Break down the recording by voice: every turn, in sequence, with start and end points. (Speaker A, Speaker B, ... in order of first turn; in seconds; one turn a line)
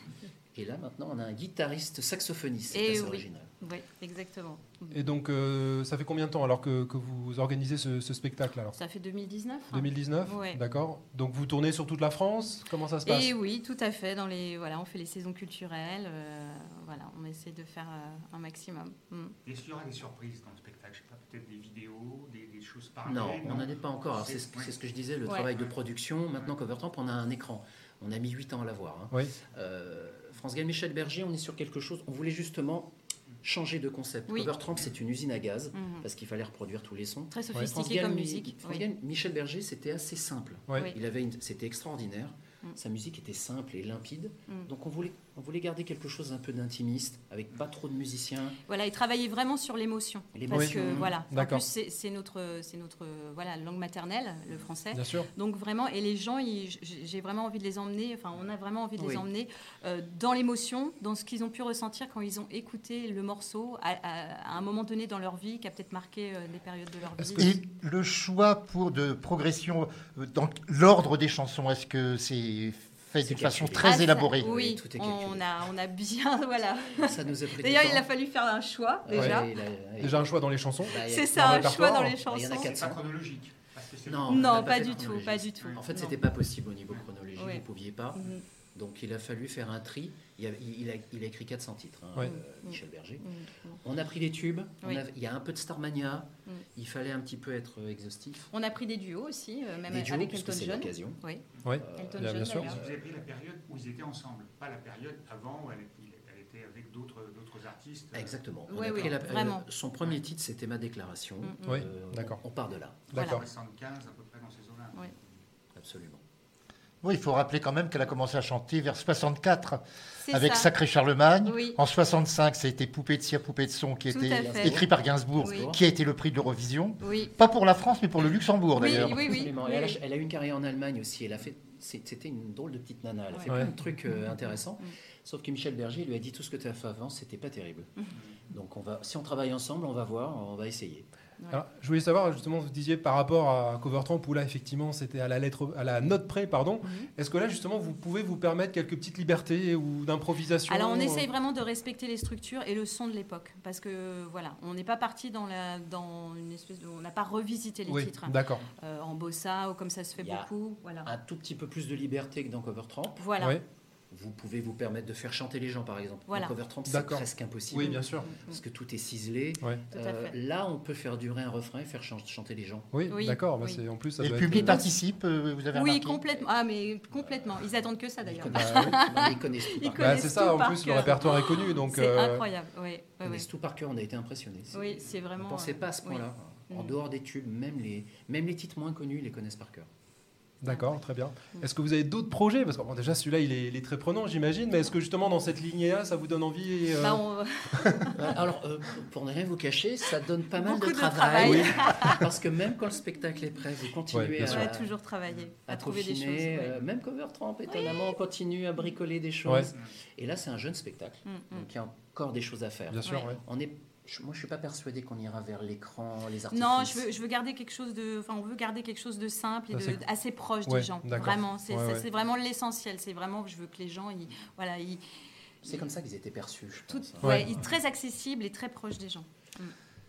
Speaker A: 0.5-3.5
Speaker B: 2.7-5.1
Speaker C: 4.9-8.8
Speaker B: 8.7-10.6
Speaker C: 9.7-13.3
Speaker B: 13.0-19.3
Speaker D: 19.4-24.8
Speaker A: 23.0-48.6
Speaker D: 25.5-25.7
Speaker C: 29.1-29.4
Speaker B: 34.3-34.5
Speaker B: 35.7-36.0
Speaker B: 37.3-38.8
Speaker B: 48.7-67.5
Speaker A: 50.3-51.2
Speaker C: 50.5-51.6
Speaker C: 54.9-55.3
Speaker A: 59.0-59.2
Speaker C: 67.2-67.5
Speaker E: 67.4-74.5
Speaker A: 73.2-75.5
Speaker B: 73.8-79.5
Speaker A: 77.0-78.1
Speaker A: 79.0-80.3
Speaker C: 79.1-79.5
Speaker C: 80.0-82.2
Speaker A: 80.8-83.1
Speaker B: 80.8-82.7
Speaker D: 82.6-85.8
Speaker A: 84.0-93.2
Speaker B: 84.3-86.2
Speaker B: 87.3-88.4
Speaker B: 92.2-93.8
Speaker A: 93.8-98.5
Speaker B: 98.5-102.8
Speaker A: 99.9-103.0
Speaker C: 101.6-102.7
Speaker D: 102.6-109.1
Speaker A: 108.1-113.2
Speaker B: 108.7-109.6
Speaker B: 111.4-111.7
Speaker C: 111.6-112.4
Speaker C: 113.1-113.5
Speaker B: 113.1-113.4
Speaker D: 113.1-115.3
Speaker A: 115.7-116.2
Speaker E: 117.0-129.5
Speaker B: 120.2-120.7
Speaker B: 121.4-121.8
Speaker B: 124.1-124.8
Speaker A: 124.3-125.8
Speaker B: 125.4-125.7
Speaker B: 127.0-127.3
Speaker A: 128.7-137.9
Speaker B: 128.7-130.0
Speaker B: 133.3-134.9
Speaker C: 133.5-133.7
Speaker A: 138.5-141.1
Speaker B: 141.4-141.6
Speaker C: 141.5-151.2
Speaker B: 146.8-147.1
Speaker B: 150.7-161.1
Speaker C: 157.9-158.6
Speaker A: 160.2-160.5
Speaker A: 161.0-163.2
Speaker B: 163.2-163.6
Speaker A: 164.1-172.9
Speaker B: 166.3-166.5
Speaker C: 166.8-168.3
Speaker B: 167.8-168.6
Speaker B: 169.9-170.3
Speaker C: 172.9-174.8
Speaker B: 173.1-173.8
Speaker E: 174.2-176.2
Speaker B: 174.5-174.9
Speaker B: 175.7-183.5
Speaker A: 177.2-177.6
Speaker A: 178.2-180.3
Speaker C: 178.5-179.3
Speaker C: 180.0-182.4
Speaker A: 183.2-189.9
Speaker B: 184.7-187.0
Speaker C: 190.6-197.2
Speaker B: 190.7-191.0
Speaker B: 197.0-198.3
Speaker C: 197.8-198.1
Speaker A: 198.2-204.9
Speaker B: 200.5-202.3
Speaker C: 201.4-202.1
Speaker C: 204.1-204.7
Speaker B: 204.4-206.8
Speaker A: 205.6-217.1
Speaker B: 207.7-208.1
Speaker C: 209.4-209.7
Speaker B: 211.2-211.6
Speaker C: 212.9-213.4
Speaker B: 216.5-225.0
Speaker C: 219.7-220.0
Speaker C: 220.7-222.1
Speaker A: 225.6-227.6
Speaker B: 226.9-229.7
Speaker C: 227.2-227.6